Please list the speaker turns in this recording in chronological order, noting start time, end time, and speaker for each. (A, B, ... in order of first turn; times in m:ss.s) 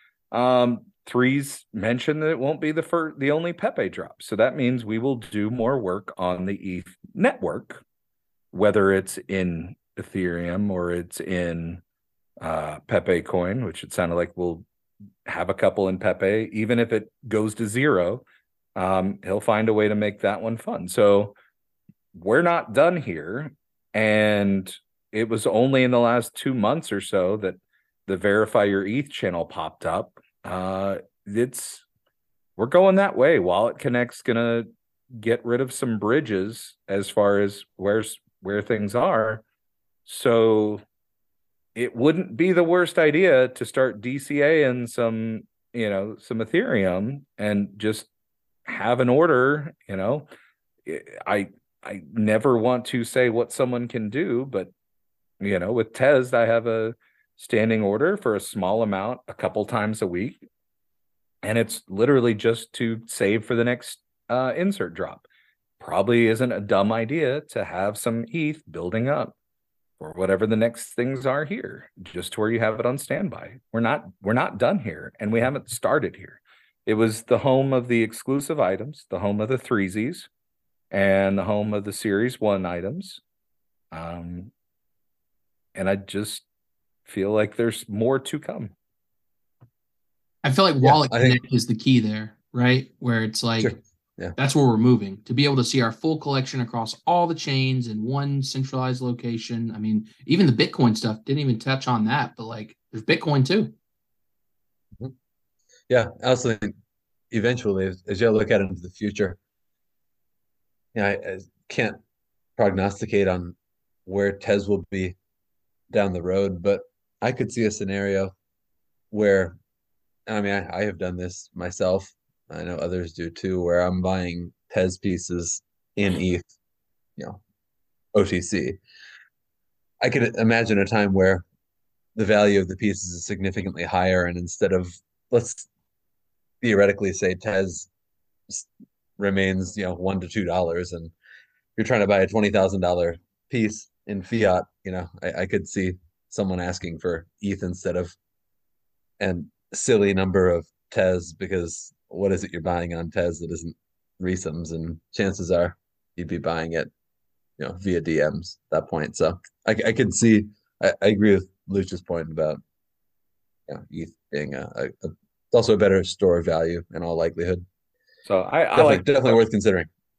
0:00.3-0:07.8 A
0:08.5-0:11.8 A
0:12.4-0:14.6 A
0:15.2-0:18.2 A
0:18.8-0:21.3 A
0:22.1-0:31.8 A
0:32.6-0:39.4 A
0:40.0-0:40.8 A
0:41.7-0:48.1 A
0:48.6-0:50.2 A
0:50.9-0:54.7 A
0:55.4-1:00.4 A
1:01.4-1:05.2 A
1:05.8-1:09.4 A
1:10.0-1:20.3 A
1:20.9-1:23.2 A
1:23.9-1:24.5 A
1:25.7-1:26.4 A
1:27.0-1:28.7 A
1:30.4-1:33.7 B
1:30.8-1:31.4 C
1:33.6-1:34.4 C
1:34.4-1:43.7 B
1:45.9-1:46.7 C
1:47.3-1:49.4 C
1:50.9-1:52.0 C
1:52.6-1:53.6 C
1:54.0-1:55.2 C
1:55.9-1:58.3 C
1:59.1-1:59.6 C
2:00.3-2:06.5 C
2:08.1-2:08.8 C
2:10.0-2:11.4 C
2:12.1-2:15.7 C
2:16.6-2:17.9 C
2:18.5-2:21.1 C
2:21.8-2:28.1 C
2:29.2-2:36.9 C
2:37.6-2:42.6 C
2:43.7-2:47.6 C
2:48.2-2:49.4 A
2:48.7-2:49.9 C